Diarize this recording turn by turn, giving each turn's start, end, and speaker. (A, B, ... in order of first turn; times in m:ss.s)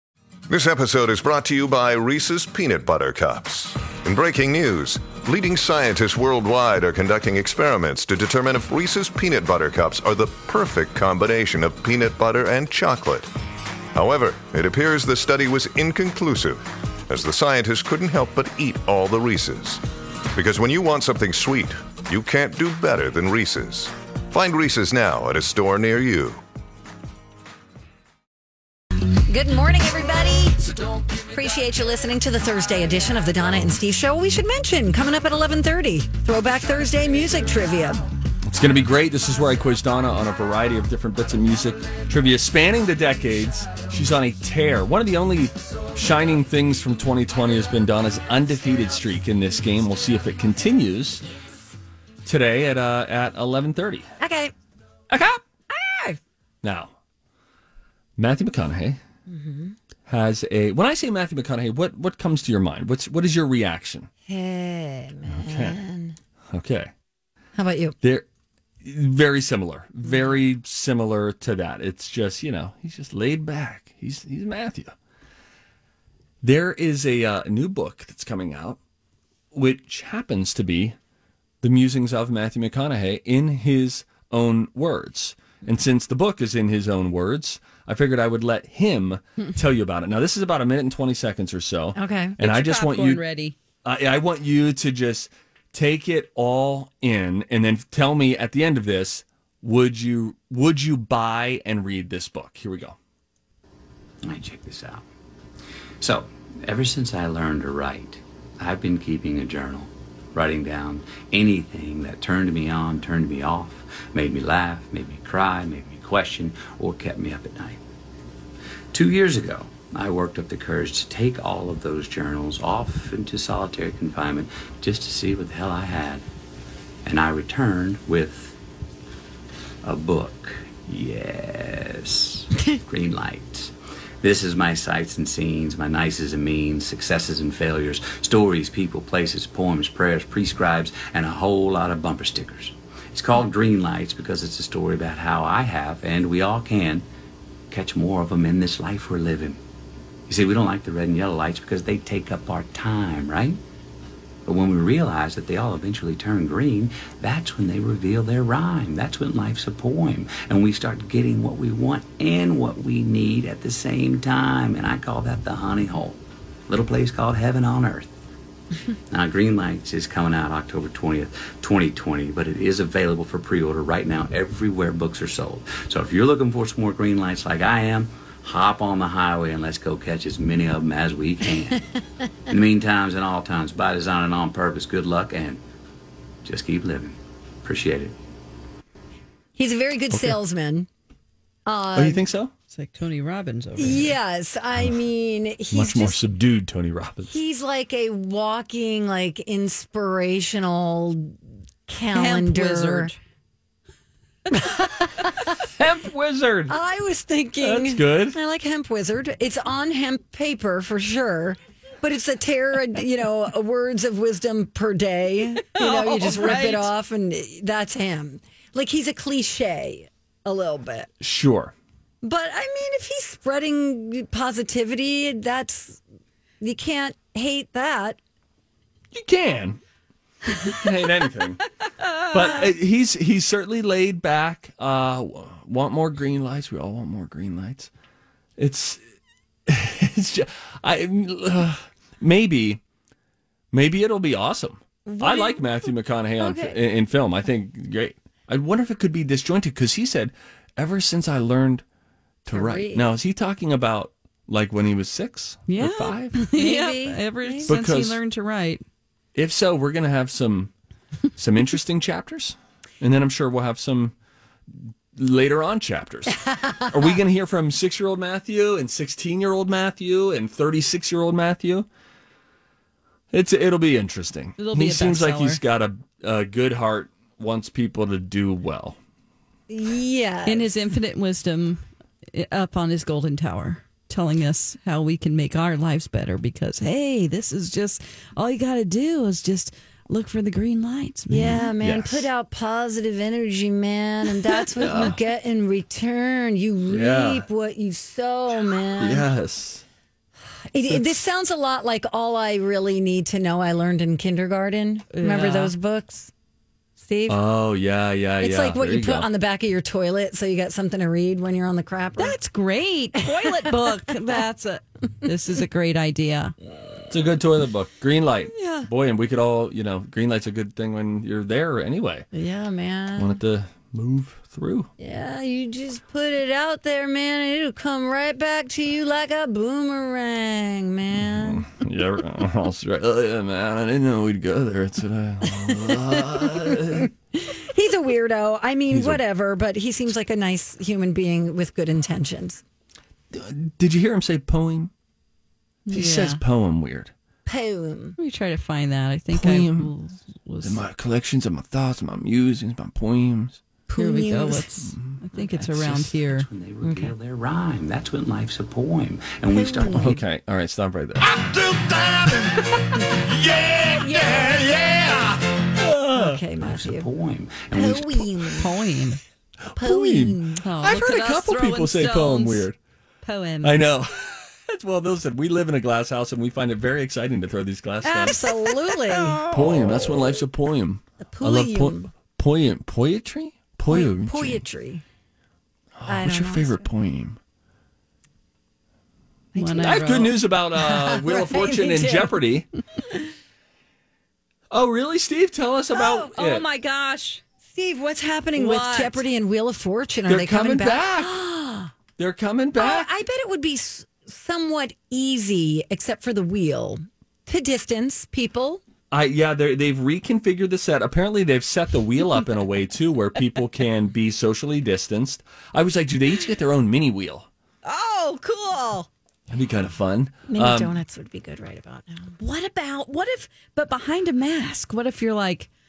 0:00.5-0:13.3 A
0:13.9-0:19.8 A
0:20.4-0:26.4 A
0:29.3-0:38.0 B
0:38.5-0:51.2 C
0:52.2-0:54.1 C
0:54.2-0:54.5 B
0:55.1-0:55.4 C
0:55.7-0:56.2 B
0:56.6-0:57.0 C
0:58.2-0:59.0 C
0:59.3-0:59.8 B
1:00.1-1:04.1 C
1:04.3-1:06.2 B
1:05.3-1:05.8 C
1:06.5-1:06.9 C
1:07.6-1:08.0 B
1:08.8-1:14.9 C
1:16.4-1:18.8 C
1:19.5-1:21.0 C
1:21.6-1:33.2 C
1:32.0-1:32.4 B
1:32.4-1:33.6 D
1:33.8-1:43.0 C
1:44.2-1:45.0 E
1:46.0-1:57.8 E
1:58.9-2:06.2 E
2:07.0-2:08.6 E
2:09.8-2:27.1 E
2:27.7-2:29.6 E
2:30.3-2:33.6 E
2:34.5-2:48.1 E
2:49.1-3:01.8 E
3:02.5-3:05.6 E
3:06.4-3:08.2 E
3:09.6-3:10.9 B
3:10.1-3:10.4 C
3:11.7-3:12.2 B
3:11.9-3:12.5 C
3:12.7-3:14.2 D
3:13.8-3:16.2 B
3:15.7-3:17.4 C
3:17.3-3:23.1 B
3:22.1-3:23.2 D
3:24.5-3:25.4 B
3:25.7-3:26.8 C
3:26.7-3:41.1 B
3:27.6-3:28.4 C
3:35.8-3:36.9 D
3:41.2-3:41.7 C
3:42.2-3:46.0 B
3:46.6-3:48.2 B
3:49.1-3:49.8 C
3:50.6-3:51.6 C
3:52.3-3:57.9 C
3:58.6-3:59.0 C
3:59.7-4:02.8 C
4:03.7-4:11.8 C
4:05.1-4:05.9 B
4:06.4-4:06.8 B
4:12.4-4:16.4 C
4:12.5-4:13.1 B
4:15.7-4:18.8 D
4:16.5-4:17.8 B
4:17.7-4:18.2 C
4:19.4-4:20.7 C
4:21.4-4:24.1 C
4:24.7-4:31.9 C
4:33.3-4:39.0 C
4:34.6-4:35.6 D
4:39.7-4:40.7 B
4:40.5-4:51.7 D
4:51.3-4:59.3 B
4:51.4-4:52.3 C
4:54.7-4:55.2 C
4:56.9-4:57.5 C
4:59.0-4:59.8 C
5:00.7-5:06.3 B
5:05.1-5:05.7 D
5:07.0-5:07.4 B
5:07.3-5:09.3 C
5:08.4-5:12.4 B
5:12.2-5:16.5 D
5:17.1-5:22.3 C
5:22.3-5:23.4 B
5:23.2-5:24.9 C
5:25.0-5:31.7 B
5:31.1-5:37.1 C
5:35.7-5:42.6 B
5:38.9-5:39.2 C
5:43.3-5:44.9 C
5:45.9-5:46.4 D
5:45.9-5:47.1 C
5:47.5-5:48.2 B
5:48.2-5:50.8 D
5:49.3-5:49.9 C
5:50.6-5:53.6 C
5:53.9-5:54.9 B
5:54.0-5:56.5 D
5:55.4-6:00.2 E
5:56.8-5:57.1 B
5:59.5-6:00.2 B
5:59.9-6:02.5 C
6:03.1-6:06.4 C
6:03.9-6:05.0 B
6:06.1-6:07.1 B
6:06.6-6:08.3 E
6:07.7-6:08.7 B
6:08.6-6:09.2 D
6:09.7-6:12.8 C
6:09.8-6:10.6 B
6:10.6-6:12.7 D
6:13.2-6:13.8 D
6:13.6-6:18.5 C
6:18.0-6:19.5 B
6:19.3-6:19.6 D
6:19.5-6:24.6 C
6:21.2-6:22.1 B
6:23.9-6:25.0 B
6:26.0-6:27.4 C
6:26.1-6:26.8 B
6:29.5-6:30.4 D
6:29.6-6:29.9 B
6:29.7-6:32.7 C
6:30.7-6:32.4 B
6:34.7-6:36.7 C
6:35.9-6:36.3 B
6:36.0-6:37.4 D
6:37.7-6:41.9 B
6:38.6-6:39.2 D
6:40.3-6:41.4 C
6:42.2-6:43.1 C
6:42.8-6:48.8 B
6:49.1-6:57.5 C
6:57.8-6:59.1 D
6:59.5-7:01.0 C
7:00.5-7:02.4 B
7:02.4-7:05.7 D